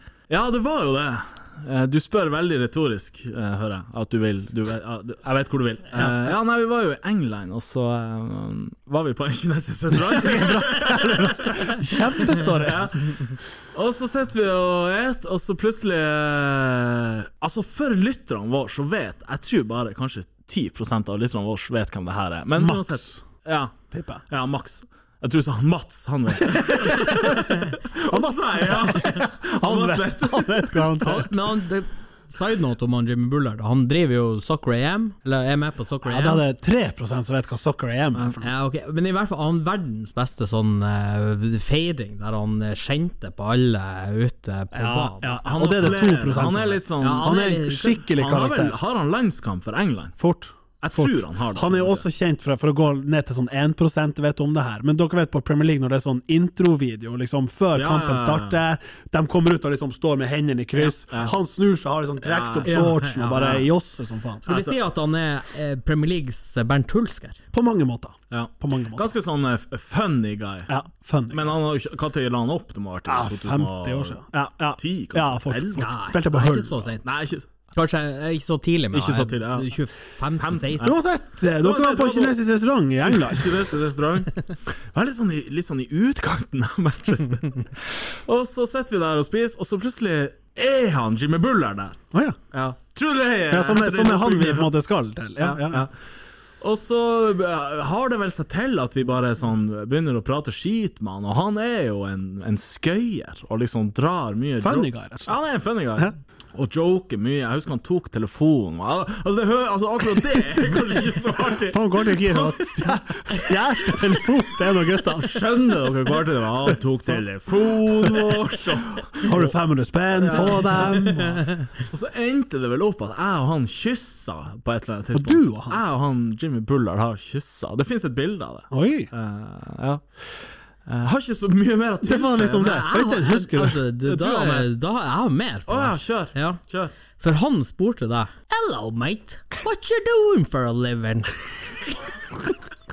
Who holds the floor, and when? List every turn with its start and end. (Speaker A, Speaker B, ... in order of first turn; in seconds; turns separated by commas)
Speaker A: 0.3-31.0, Speaker B: 6.0-6.3, Speaker B: 10.2-13.3, Speaker B: 22.6-23.2, Speaker B: 23.9-24.2, Speaker B: 26.4-31.3, Speaker C: 31.0-36.4, Speaker B: 36.0-38.5, Speaker C: 38.4-46.0, Speaker B: 44.7-48.8, Speaker A: 45.4-47.4, Speaker C: 47.0-48.0, Speaker A: 48.0-50.2, Speaker B: 50.2-64.5, Speaker A: 50.8-52.0, Speaker A: 57.7-58.6, Speaker A: 60.8-61.3, Speaker A: 62.2-63.6, Speaker C: 62.6-63.7, Speaker A: 64.5-64.8, Speaker C: 64.5-67.4, Speaker B: 67.5-69.1, Speaker A: 68.3-70.7, Speaker B: 70.7-71.5, Speaker A: 71.3-74.2, Speaker B: 73.1-76.8, Speaker A: 74.8-75.9, Speaker C: 75.8-77.1, Speaker A: 77.0-77.5, Speaker C: 77.7-81.0, Speaker A: 78.9-79.7, Speaker A: 80.4-81.0, Speaker B: 80.8-83.6, Speaker A: 81.6-82.4, Speaker A: 83.0-92.0, Speaker A: 92.5-94.7, Speaker B: 93.5-95.9, Speaker A: 95.4-95.9, Speaker A: 96.6-112.7, Speaker B: 104.6-105.3, Speaker B: 111.7-115.4, Speaker A: 113.3-114.3, Speaker A: 114.8-119.5, Speaker B: 118.1-118.3, Speaker B: 119.2-121.5, Speaker A: 120.2-120.9, Speaker C: 120.7-121.5, Speaker A: 121.7-130.0, Speaker B: 125.1-125.8, Speaker B: 128.7-129.1, Speaker A: 130.8-132.9, Speaker B: 132.0-133.8, Speaker C: 132.6-136.6, Speaker A: 134.0-134.7, Speaker A: 135.7-136.9, Speaker C: 137.2-141.8